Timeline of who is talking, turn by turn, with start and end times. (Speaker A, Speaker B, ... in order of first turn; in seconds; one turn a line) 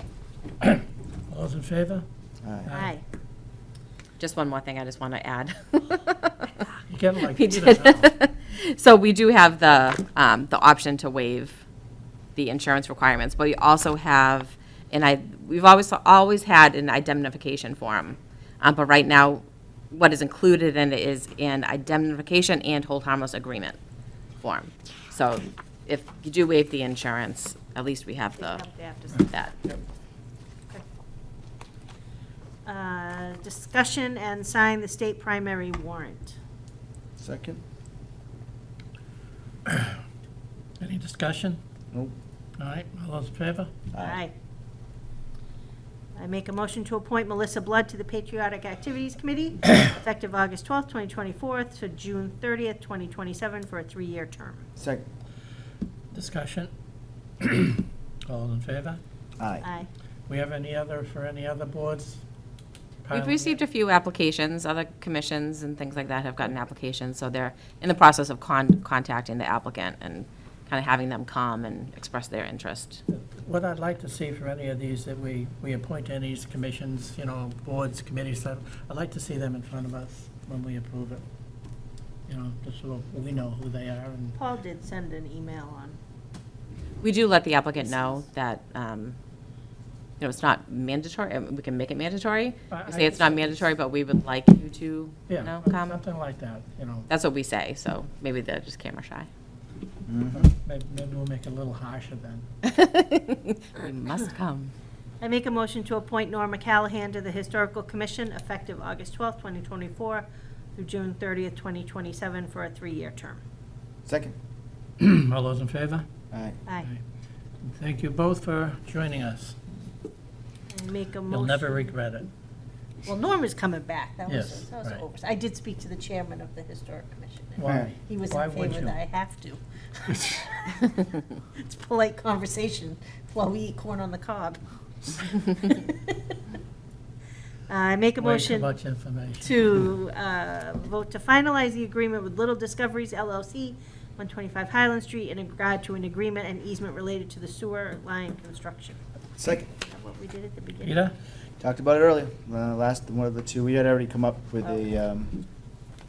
Speaker A: 0.6-2.0
Speaker B: 2.4-2.7
Speaker A: 2.6-2.9
Speaker C: 2.7-3.0
Speaker D: 4.2-6.5
Speaker A: 6.9-8.1
Speaker D: 7.3-11.6
Speaker D: 12.3-23.8
Speaker D: 24.4-28.6
Speaker C: 28.4-29.3
Speaker A: 29.1-29.8
Speaker D: 29.3-29.5
Speaker C: 32.6-36.4
Speaker B: 37.2-37.6
Speaker A: 39.7-40.0
Speaker A: 40.8-41.6
Speaker A: 42.6-43.7
Speaker B: 43.9-44.2
Speaker C: 44.0-44.3
Speaker C: 46.1-54.6
Speaker B: 54.8-55.0
Speaker A: 56.1-56.7
Speaker A: 57.4-59.0
Speaker B: 59.4-59.6
Speaker C: 59.6-59.9
Speaker A: 60.3-62.2
Speaker A: 63.0-63.6
Speaker D: 63.1-73.0
Speaker A: 73.1-81.2
Speaker A: 82.3-84.4
Speaker C: 84.3-86.0
Speaker D: 87.0-89.2
Speaker D: 90.2-96.0
Speaker A: 92.7-93.7
Speaker A: 95.3-97.1
Speaker D: 97.1-99.3
Speaker B: 100.1-100.5
Speaker A: 100.3-102.4
Speaker D: 102.7-104.7
Speaker C: 105.2-113.4
Speaker B: 114.0-114.3
Speaker A: 115.0-116.0
Speaker B: 116.3-116.6
Speaker A: 117.6-119.6
Speaker C: 120.7-121.8
Speaker A: 121.3-122.3
Speaker C: 123.0-136.3
Speaker A: 124.3-125.0
Speaker A: 127.6-129.0
Speaker B: 127.7-127.9
Speaker C: 137.7-138.7
Speaker A: 138.2-139.6
Speaker C: 139.4-149.0
Speaker B: 149.4-149.7
Speaker C: 149.8-151.0
Speaker A: 150.8-151.1
Speaker B: 151.6-155.4